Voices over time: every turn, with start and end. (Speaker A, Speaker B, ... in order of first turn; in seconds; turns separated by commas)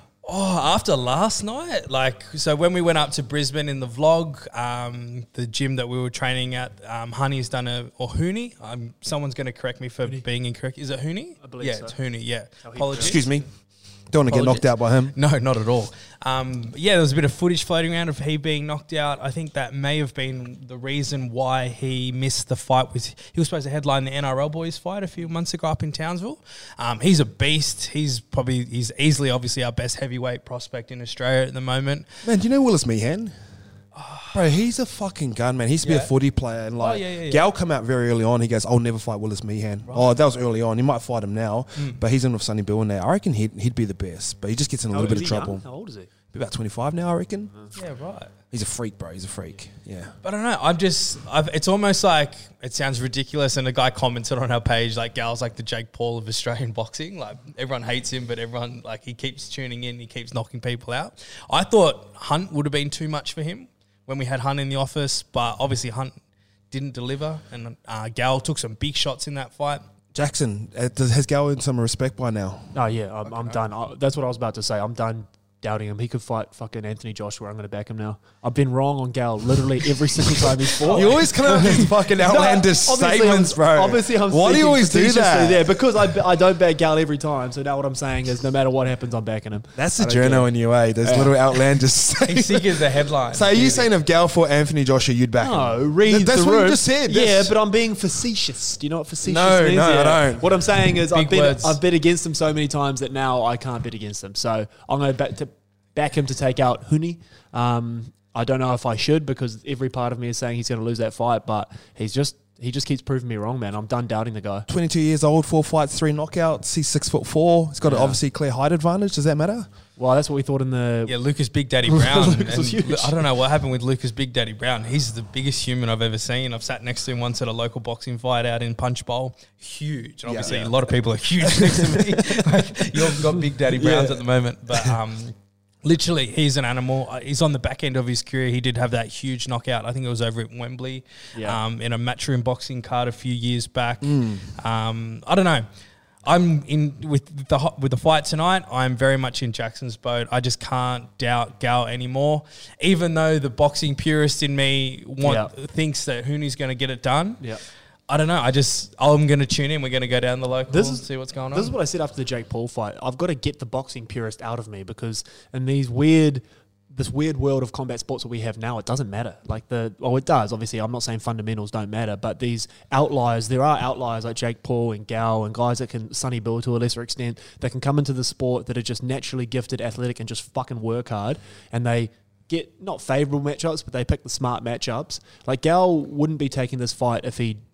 Speaker A: 0.2-13.3, Speaker B: 11.4-12.0, Speaker B: 12.6-13.3, Speaker C: 12.9-13.4, Speaker C: 14.1-15.1, Speaker A: 14.3-32.1, Speaker C: 32.2-33.3, Speaker A: 33.9-34.4, Speaker C: 34.3-45.6, Speaker A: 35.8-36.1, Speaker A: 36.8-37.4, Speaker B: 44.9-46.1, Speaker C: 46.3-47.5, Speaker A: 47.8-48.3, Speaker C: 48.5-50.1, Speaker A: 50.2-66.1, Speaker A: 66.7-69.8, Speaker C: 70.1-72.7, Speaker B: 72.7-90.5, Speaker A: 73.2-73.6, Speaker A: 80.8-81.9, Speaker C: 80.8-85.7, Speaker C: 89.8-97.5, Speaker B: 91.0-91.8, Speaker A: 92.2-93.9, Speaker B: 95.4-114.7, Speaker C: 99.2-100.4, Speaker A: 101.1-101.8, Speaker C: 114.7-119.7, Speaker B: 117.8-118.2, Speaker B: 120.0-121.2, Speaker A: 121.1-145.7, Speaker B: 121.8-123.2, Speaker C: 130.2-130.7, Speaker B: 130.4-130.7, Speaker C: 133.7-134.2, Speaker B: 141.3-141.6, Speaker C: 144.0-144.4, Speaker A: 146.2-157.5, Speaker B: 155.2-155.5, Speaker A: 158.1-161.7, Speaker B: 160.7-187.6